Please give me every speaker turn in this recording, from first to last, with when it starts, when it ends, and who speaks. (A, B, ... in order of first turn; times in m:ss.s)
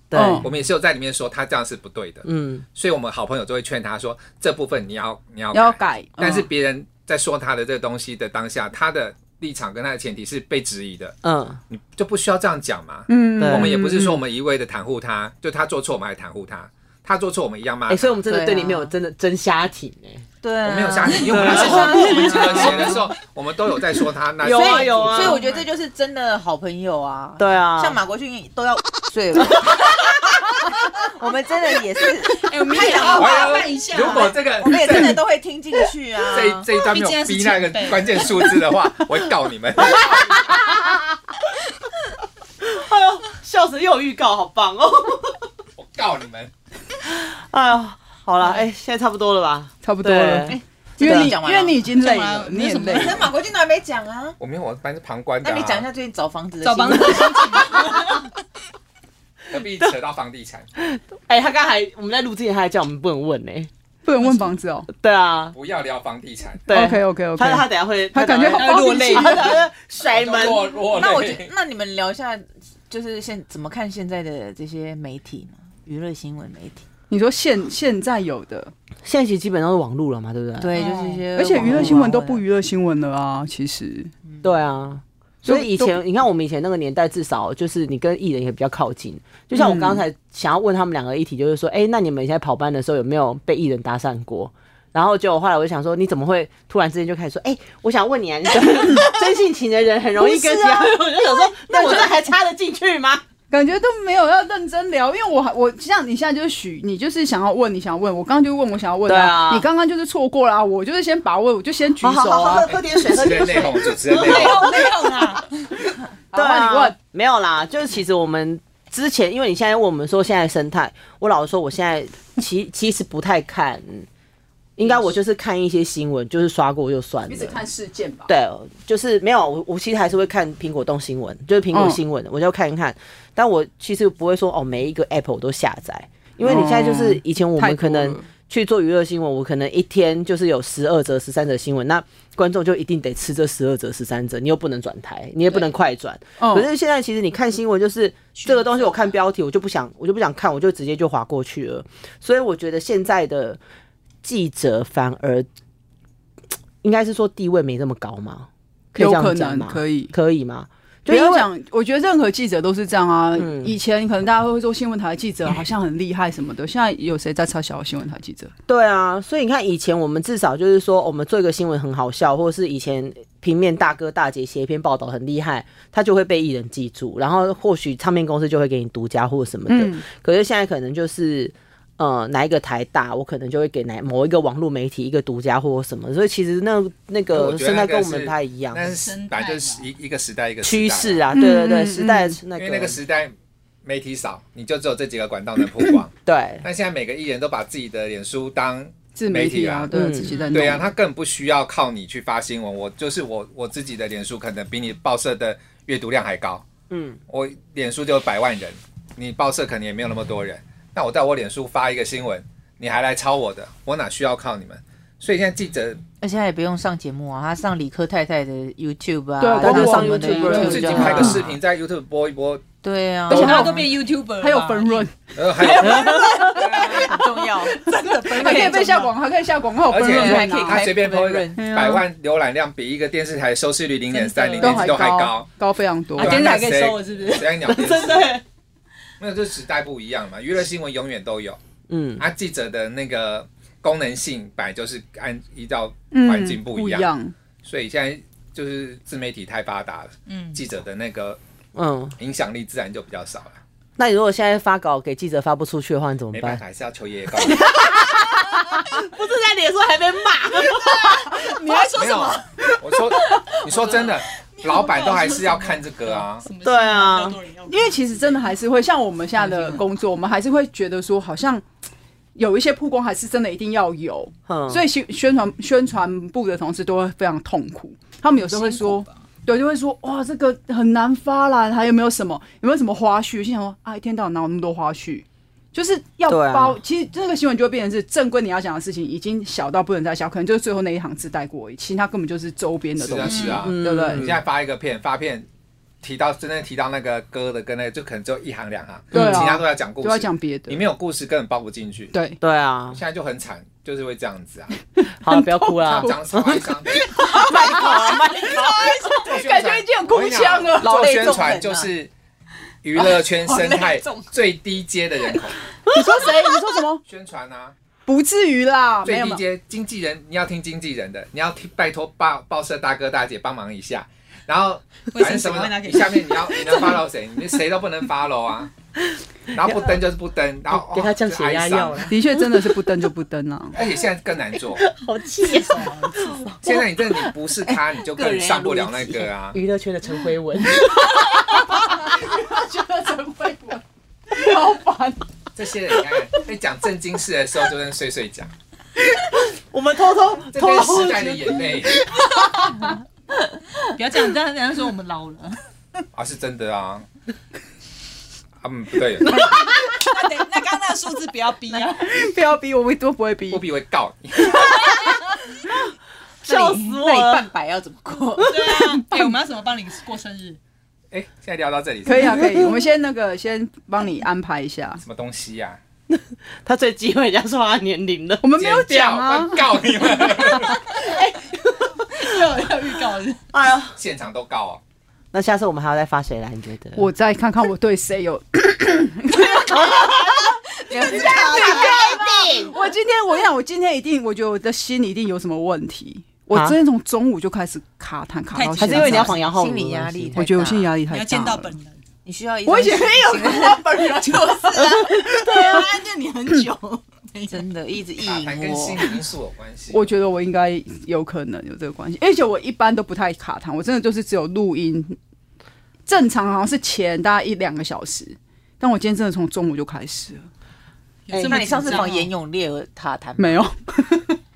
0:00.1-0:00.5 A
0:00.1-0:00.5 B
0:00.4-0:11.2 C
0:02.2-0:02.6 A
0:05.5-0:06.4 B
0:11.2-0:11.6 A
0:11.7-0:18.2 C
0:13.1-0:14.2 B
0:13.4-0:13.8 A
0:17.9-0:20.2 A
0:18.2-0:18.9 D
0:20.4-0:23.1 D
0:20.6-0:25.7 C
0:21.2-0:23.0 A
0:21.9-0:22.7 E
0:24.4-0:25.4 A
0:24.4-0:36.7 D
0:27.4-0:28.0 A
0:32.4-0:34.3 E
0:33.1-0:35.2 C
0:36.3-0:40.6 C
0:36.7-0:38.3 E
0:40.1-0:40.9 A
0:42.6-0:45.5 A
0:45.8-0:46.5 C
0:47.1-0:51.3 A
0:49.8-0:53.2 B
0:50.5-0:51.8 D
0:52.0-0:53.3 E
0:52.9-0:54.4 D
0:54.4-0:55.8 C
0:55.4-0:57.9 D
0:56.6-0:58.3 E
0:59.5-1:00.6 C
1:00.8-1:03.7 A
1:04.0-1:04.9 B
1:04.2-1:04.5 E
1:04.9-1:05.5 A
1:05.5-1:06.7 C
1:06.7-1:10.7 A
1:06.7-1:09.5 B
1:08.5-1:09.6 E
1:10.0-1:11.5 C
1:10.9-1:16.8 D
1:17.1-1:18.7 B
1:19.0-1:20.7 A
1:20.6-1:22.4 D
1:20.8-1:21.2 E
1:21.3-1:24.1 B
1:21.6-1:22.0 A
1:24.4-1:43.2 A
1:25.4-1:26.0 B
1:29.5-1:30.0 B
1:40.2-1:42.1 B
1:43.5-1:52.7 B
1:49.1-1:49.7 A
1:52.0-1:53.9 A
1:52.7-1:54.7 C
1:54.0-1:55.5 E
1:54.1-1:54.9 D
1:56.3-1:56.9 B
1:56.3-2:04.1 A
2:04.8-2:07.6 A
2:07.3-2:08.3 B
2:08.3-2:33.6 A
2:11.7-2:12.0 B
2:16.4-2:18.3 B
2:26.4-2:26.7 B
2:28.4-2:29.0 E
2:34.2-2:35.5 A
2:36.8-2:41.5 A
2:38.9-2:40.1 B
2:41.1-2:48.5 B
2:43.4-2:43.7 A
2:48.7-3:08.9 A
2:59.7-3:00.0 B
3:07.3-3:11.2 C
3:08.9-3:09.9 E
3:10.6-3:13.0 A
3:11.3-3:12.4 B
3:12.5-3:19.9 C
3:16.2-3:16.6 A
3:19.1-3:20.9 B
3:19.9-3:20.3 A
3:20.5-3:26.6 C
3:26.9-3:27.2 A
3:27.3-3:36.0 C
3:36.2-3:41.4 D
3:39.4-3:41.4 B
3:39.6-3:41.4 A
3:40.6-3:42.7 C
3:42.8-3:43.7 D
3:43.3-3:45.1 E
3:43.3-3:45.1 B
3:43.3-3:43.7 C
3:45.3-3:47.2 C
3:45.6-3:49.1 E
3:45.8-3:46.4 A
3:46.6-3:47.8 D
3:48.3-3:50.8 B
3:48.4-3:48.9 D
3:49.9-3:55.5 C
3:50.0-3:51.7 D
3:51.6-3:52.0 B
3:54.1-3:54.9 E
3:54.6-3:56.4 B
3:56.2-3:57.5 E
3:56.2-3:58.3 C
3:56.2-3:57.0 A
3:57.6-3:58.4 A
3:59.2-4:01.6 C
4:01.9-4:02.2 A
4:02.2-4:11.4 C
4:06.1-4:07.3 B
4:10.3-4:10.6 E
4:11.7-4:12.1 A
4:12.2-4:13.6 C
4:14.0-4:16.6 A
4:16.3-4:17.7 C
4:17.6-4:21.3 A
4:20.6-4:22.5 E
4:21.9-4:26.4 C
4:23.7-4:28.5 E
4:26.6-4:27.4 A
4:27.7-4:31.6 B
4:29.4-4:29.8 E
4:32.4-4:54.3 B
4:34.5-4:34.8 A
4:38.4-4:39.1 E
4:46.3-4:46.8 A
4:53.0-4:55.5 C
4:53.3-4:53.6 D
4:53.3-4:54.4 A
4:56.0-5:02.1 C
4:59.1-4:59.5 A
4:59.1-5:00.8 B
5:02.1-5:02.4 B
5:02.4-5:03.0 A
5:02.9-5:04.7 C
5:05.0-5:06.2 B
5:05.2-5:09.2 A
5:05.8-5:07.1 C
5:07.1-5:11.0 B
5:09.1-5:12.1 C
5:10.8-5:11.9 D
5:12.8-5:15.6 C
5:12.9-5:14.3 D
5:15.9-5:17.0 B
5:15.9-5:16.2 A
5:17.0-5:17.7 C
5:18.0-5:19.4 B
5:19.0-5:28.7 C
5:25.1-5:27.0 E
5:29.5-5:32.1 C
5:30.7-5:32.7 A
5:32.1-5:33.8 B
5:33.7-5:34.9 C
5:34.8-5:36.4 A
5:35.6-5:36.2 E
5:36.6-5:39.6 C
5:37.6-5:39.3 D
5:39.5-5:41.7 A
5:41.5-5:45.2 B
5:45.6-5:48.5 C
5:49.4-5:51.7 A
5:50.5-5:52.0 C
5:53.9-5:55.6 E
5:56.1-5:57.0 C
5:58.6-5:59.5 C
5:59.2-6:02.0 E
6:01.7-6:03.6 B
6:03.5-6:04.9 C
6:06.4-6:07.4 A
6:06.4-6:08.5 D
6:08.4-6:10.6 E
6:09.0-6:09.3 B
6:11.1-6:12.5 C
6:12.0-6:15.0 B
6:15.0-6:15.8 C
6:16.1-6:18.4 A
6:18.4-6:19.7 B
6:18.6-6:21.0 C
6:20.3-6:20.8 B
6:21.0-6:23.4 E
6:23.5-6:23.9 A
6:24.0-6:24.8 C
6:25.3-6:27.1 A
6:27.0-6:39.3 B
6:30.9-6:32.5 E
6:30.9-6:32.6 D
6:31.6-6:32.7 A
6:38.5-6:39.2 E
6:38.8-6:40.4 A
6:39.0-6:40.9 D
6:40.3-6:41.7 B
6:41.1-6:42.0 E
6:42.2-6:44.9 D
6:42.6-6:45.8 B
6:44.7-6:47.6 E
6:47.5-6:49.1 D
6:48.2-6:50.1 C
6:49.9-6:55.2 B
6:56.0-7:00.5 B
7:01.3-7:02.3 E
7:01.3-7:03.6 D
7:01.3-7:02.1 B
7:03.4-7:04.4 B